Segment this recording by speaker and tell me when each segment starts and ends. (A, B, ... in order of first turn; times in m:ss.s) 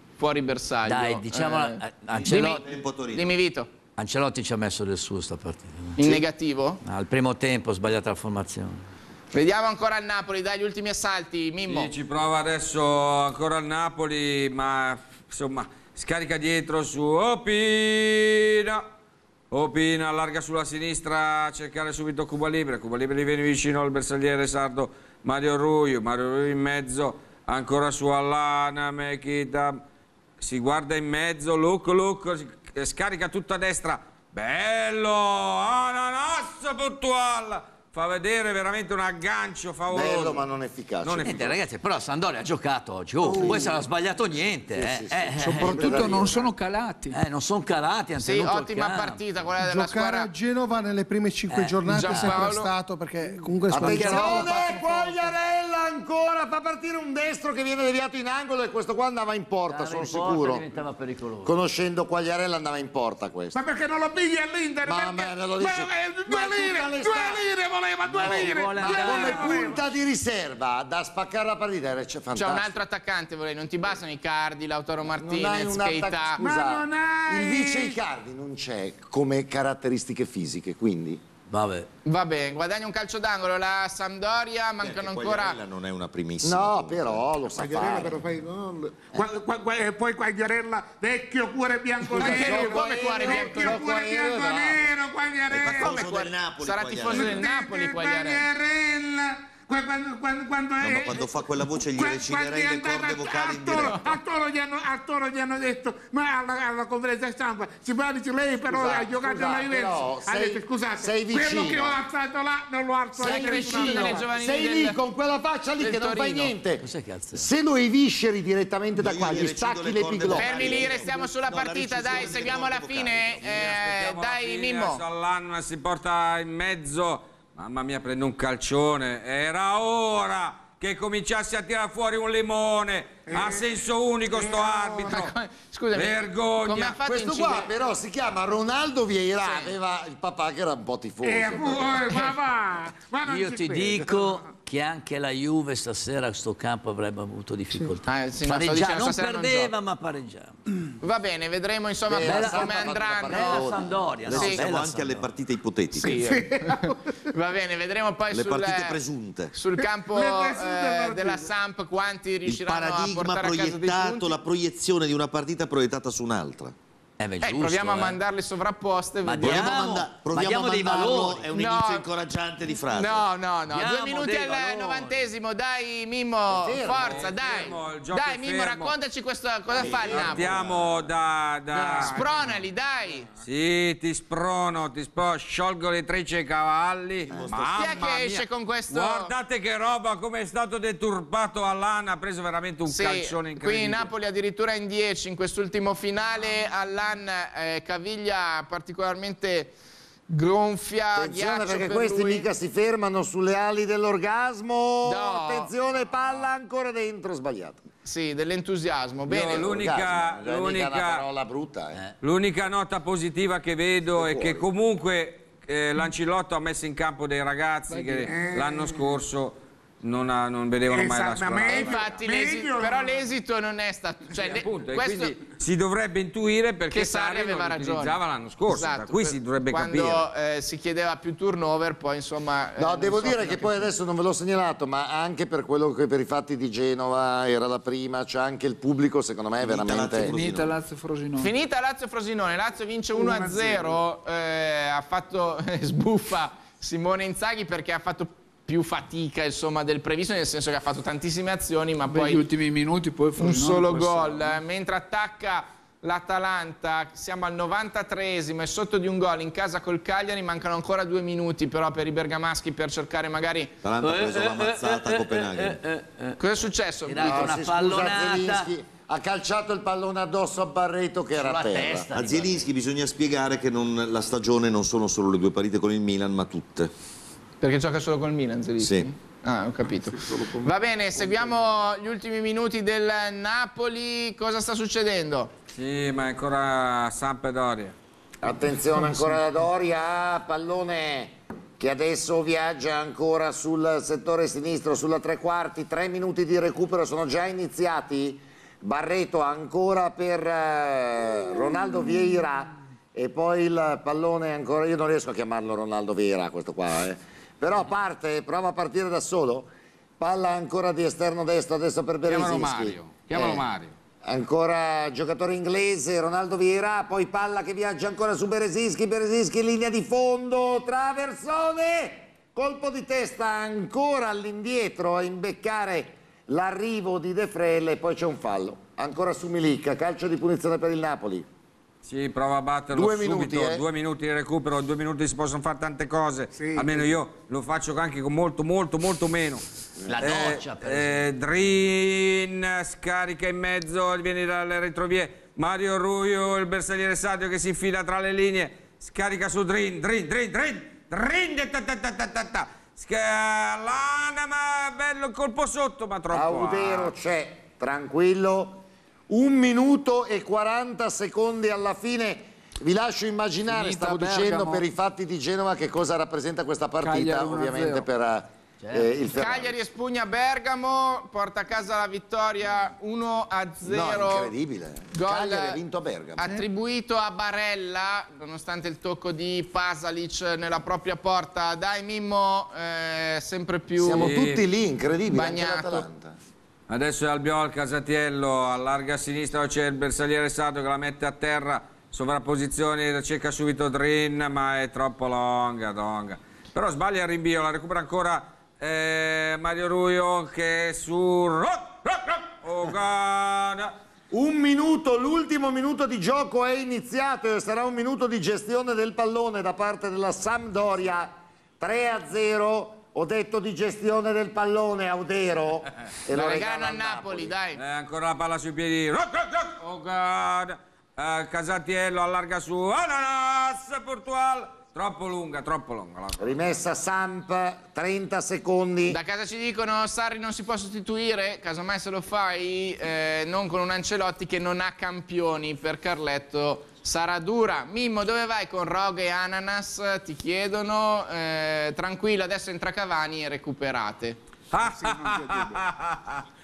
0:00.2-0:02.6 A
0:00.8-0:02.6 B
0:02.2-0:03.3 C
0:03.1-0:03.7 A
0:04.0-0:06.0 B
0:06.0-0:06.8 A
0:06.8-0:08.8 B
0:09.3-0:11.9 A
0:11.7-0:18.8 D
0:19.5-0:29.8 D
0:30.4-0:40.4 D
0:39.9-0:41.5 E
0:41.0-0:41.6 D
0:41.2-0:46.2 B
0:43.2-0:43.8 F
0:43.3-0:43.8 E
0:44.7-0:46.5 E
0:45.4-0:47.2 G
0:47.1-0:49.2 B
0:48.2-0:50.3 A
0:49.6-0:55.3 H
0:51.5-0:52.6 B
0:51.9-0:52.7 A
0:53.7-0:54.8 B
0:53.7-1:00.6 E
0:59.7-1:01.6 B
1:01.4-1:03.6 E
1:03.5-1:09.9 F
1:04.8-1:07.4 E
1:08.1-1:12.8 E
1:08.1-1:09.6 B
1:12.4-1:16.4 A
1:15.1-1:21.2 E
1:16.4-1:18.0 F
1:21.5-1:21.9 B
1:22.0-1:25.6 A
1:24.8-1:27.2 C
1:26.4-1:28.2 E
1:27.5-1:36.0 F
1:32.1-1:34.9 E
1:32.1-1:33.8 A
1:35.5-1:37.4 C
1:35.6-1:38.4 A
1:37.1-1:54.2 F
1:40.8-1:44.1 C
1:48.7-1:52.0 E
1:53.2-2:01.1 E
1:53.2-1:55.0 A
1:55.8-1:56.5 A
1:56.8-1:57.5 B
1:59.0-2:03.6 C
2:00.3-2:05.0 A
2:03.4-2:15.3 D
2:13.3-2:13.8 F
2:14.3-2:15.2 F
2:15.0-2:17.7 A
2:15.9-2:17.0 D
2:17.0-2:22.2 E
2:19.4-2:19.7 A
2:21.2-2:24.5 F
2:23.3-2:30.6 B
2:28.0-2:29.7 A
2:31.0-2:33.7 A
2:32.1-2:33.9 E
2:32.2-2:35.3 B
2:34.2-2:36.2 C
2:34.3-2:34.6 A
2:36.0-2:39.0 A
2:36.1-2:37.1 F
2:38.3-2:39.5 C
2:39.5-2:44.4 A
2:39.8-2:41.5 F
2:42.4-2:46.7 C
2:47.2-2:48.2 B
2:47.4-2:50.0 A
2:49.2-2:51.5 B
2:49.4-2:53.2 C
2:51.6-2:52.1 A
2:52.9-3:00.6 A
2:53.7-2:55.1 B
2:56.5-2:57.6 E
2:57.0-2:58.9 D
2:59.7-3:00.9 E
2:59.8-3:00.7 C
2:59.9-3:02.1 D
3:01.7-3:02.5 E
3:02.0-3:03.3 A
3:03.4-3:14.1 D
3:07.3-3:08.0 C
3:07.8-3:09.3 A
3:12.9-3:19.7 A
3:20.3-3:22.5 A
3:21.1-3:27.8 E
3:25.0-3:25.7 A
3:28.0-3:29.7 A
3:29.3-3:32.0 E
3:29.3-3:31.2 D
3:32.2-3:42.0 D
3:34.1-3:34.7 E
3:37.9-3:38.3 G
3:38.3-3:39.1 F
3:40.9-3:43.3 F
3:41.7-3:45.4 A
3:44.4-3:50.2 D
3:46.9-3:53.9 A
3:52.8-4:00.3 E
3:59.6-4:00.8 C
4:00.2-4:01.5 G
4:01.4-4:12.4 A
4:03.1-4:04.0 F
4:12.1-4:14.6 G
4:13.4-4:23.7 A
4:23.8-4:25.8 C
4:24.0-4:26.4 B
4:26.4-4:27.6 A
4:27.0-4:28.7 B
4:27.2-4:32.1 E
4:31.3-4:32.7 B
4:32.1-4:36.9 C
4:37.6-4:45.5 A
4:38.8-4:39.1 C
4:45.7-4:47.9 D
4:48.4-5:13.6 E
5:12.2-5:13.9 D
5:14.2-5:31.5 E
5:32.0-5:39.6 D
5:32.9-5:33.8 E
5:36.5-5:37.1 F
5:40.0-5:40.4 E
5:40.0-5:41.3 B
5:40.2-5:57.1 D
5:56.3-6:09.8 E
6:03.7-6:04.8 G
6:07.0-6:08.1 G
6:08.8-6:09.2 B
6:09.3-6:14.5 A
6:13.8-6:16.5 E
6:15.1-6:15.8 A
6:16.4-6:24.4 A
6:16.4-6:16.6 H
6:24.0-6:26.4 E
6:24.2-6:24.6 D
6:25.3-6:26.0 A
6:26.9-6:43.9 D
6:44.3-6:57.5 E
6:56.3-6:57.8 A
6:57.8-7:06.8 D
7:06.4-7:09.2 E
7:09.1-7:24.4 A
7:24.7-7:26.4 D
7:24.8-7:25.8 F